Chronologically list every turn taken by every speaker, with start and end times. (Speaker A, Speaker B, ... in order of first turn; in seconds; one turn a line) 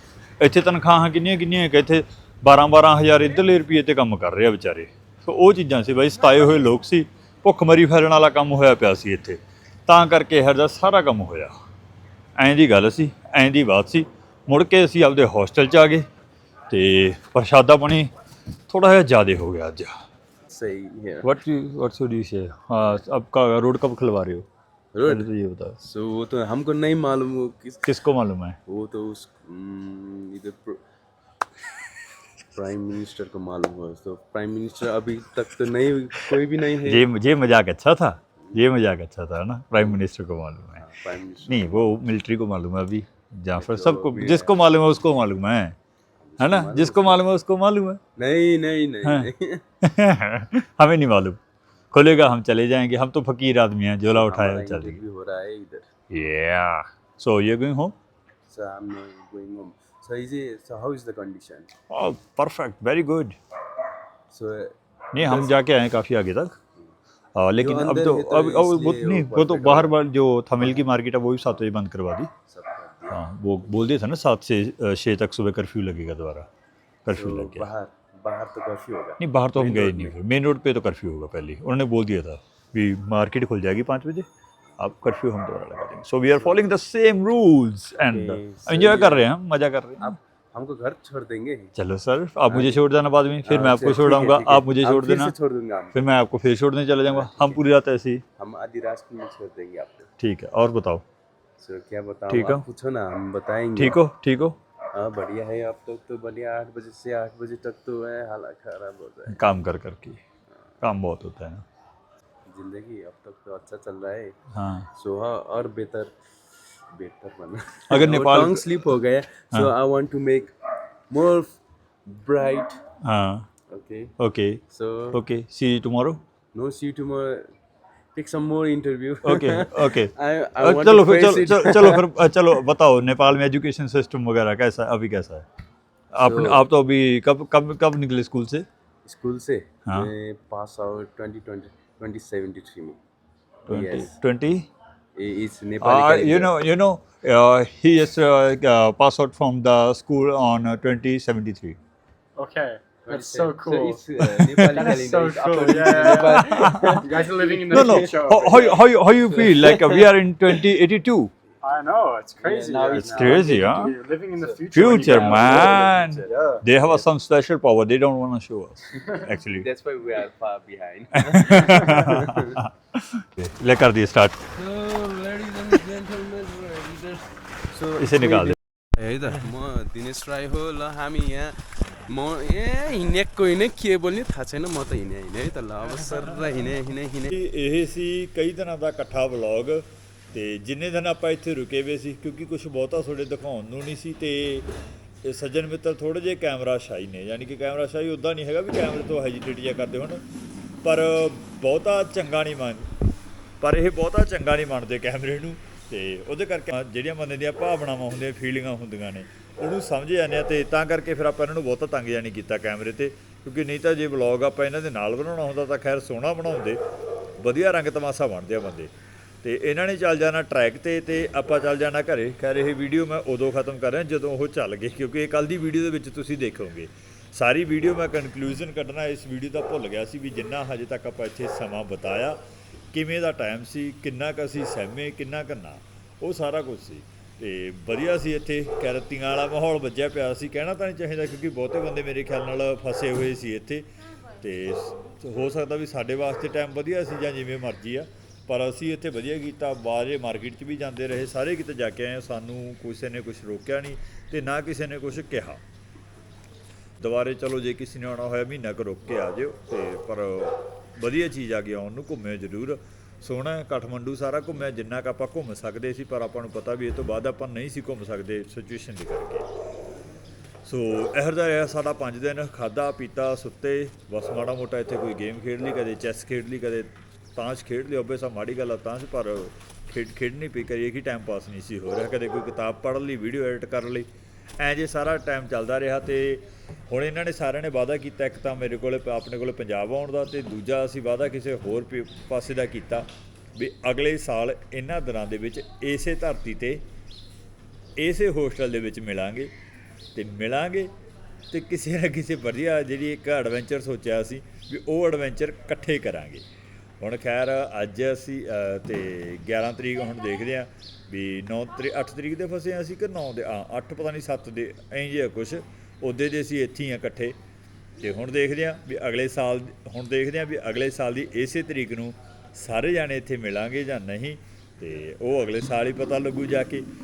Speaker A: 0.4-11.5
Speaker A: 12.4-16.1
Speaker A: 16.7-18.1
Speaker A: 18.7-19.9
Speaker B: 20.5-21.3
Speaker A: 21.2-24.5
Speaker B: 24.9-25.3
Speaker A: 25.1-25.8
Speaker B: 25.8-27.9
Speaker A: 27.9-28.6
Speaker B: 28.7-30.8
Speaker B: 32.5-37.1
Speaker A: 36.3-40.8
Speaker B: 39.7-40.0
Speaker B: 40.8-41.9
Speaker A: 41.5-45.8
Speaker B: 43.6-44.5
Speaker B: 46.2-47.2
Speaker A: 46.4-48.0
Speaker B: 48.2-49.6
Speaker A: 49.0-49.3
Speaker A: 49.8-51.4
Speaker A: 51.9-55.0
Speaker B: 54.1-55.9
Speaker A: 56.1-57.9
Speaker B: 58.5-61.7
Speaker A: 61.9-63.4
Speaker B: 64.3-65.5
Speaker A: 65.1-66.6
Speaker A: 67.4-72.3
Speaker B: 67.6-69.9
Speaker B: 72.5-73.2
Speaker A: 73.1-76.5
Speaker A: 77.0-77.7
Speaker B: 77.1-80.1
Speaker A: 79.2-84.3
Speaker A: 84.8-90.2
Speaker B: 88.0-89.2
Speaker B: 90.0-91.7
Speaker A: 91.8-95.3
Speaker B: 92.5-92.8
Speaker B: 93.5-96.0
Speaker A: 95.9-98.2
Speaker B: 97.1-97.6
Speaker B: 98.4-100.1
Speaker A: 100.2-101.0
Speaker B: 101.6-104.0
Speaker A: 102.3-102.7
Speaker A: 103.8-104.6
Speaker B: 104.9-109.4
Speaker A: 109.3-110.2
Speaker A: 110.8-111.6
Speaker B: 112.5-114.4
Speaker A: 114.5-114.9
Speaker B: 115.0-116.1
Speaker B: 116.9-120.5
Speaker A: 117.9-118.7
Speaker B: 121.1-122.8
Speaker A: 123.0-123.5
Speaker B: 123.7-124.1
Speaker A: 124.2-126.2
Speaker B: 124.7-125.2
Speaker B: 126.5-127.5
Speaker B: 128.2-132.1
Speaker A: 129.2-135.5
Speaker A: 136.1-138.7
Speaker B: 136.2-136.6
Speaker B: 139.1-143.0
Speaker B: 143.7-144.1
Speaker A: 143.7-144.7
Speaker B: 145.2-146.6
Speaker A: 145.8-151.8
Speaker C: 152.4-158.8
Speaker B: 153.1-158.6
Speaker A: 155.9-157.1
Speaker A: 157.7-161.3
Speaker B: 159.3-160.1
Speaker C: 161.6-166.6
Speaker B: 162.4-163.8
Speaker A: 162.9-164.0
Speaker B: 164.4-167.0
Speaker A: 164.7-169.7
Speaker B: 169.6-172.6
Speaker A: 171.2-174.4
Speaker B: 174.6-187.3
Speaker A: 178.0-178.6
Speaker A: 187.3-194.7
Speaker A: 195.2-200.2
Speaker A: 200.8-202.9
Speaker A: 203.6-216.8
Speaker A: 217.4-218.9
Speaker A: 219.4-232.4
Speaker A: 232.9-243.9
Speaker A: 244.4-255.6
Speaker A: 257.0-269.5
Speaker A: 270.6-284.1
Speaker A: 284.6-296.8
Speaker A: 298.0-299.5
Speaker A: 300.1-300.9
Speaker A: 301.5-306.4
Speaker A: 307.0-317.4
Speaker A: 318.0-326.9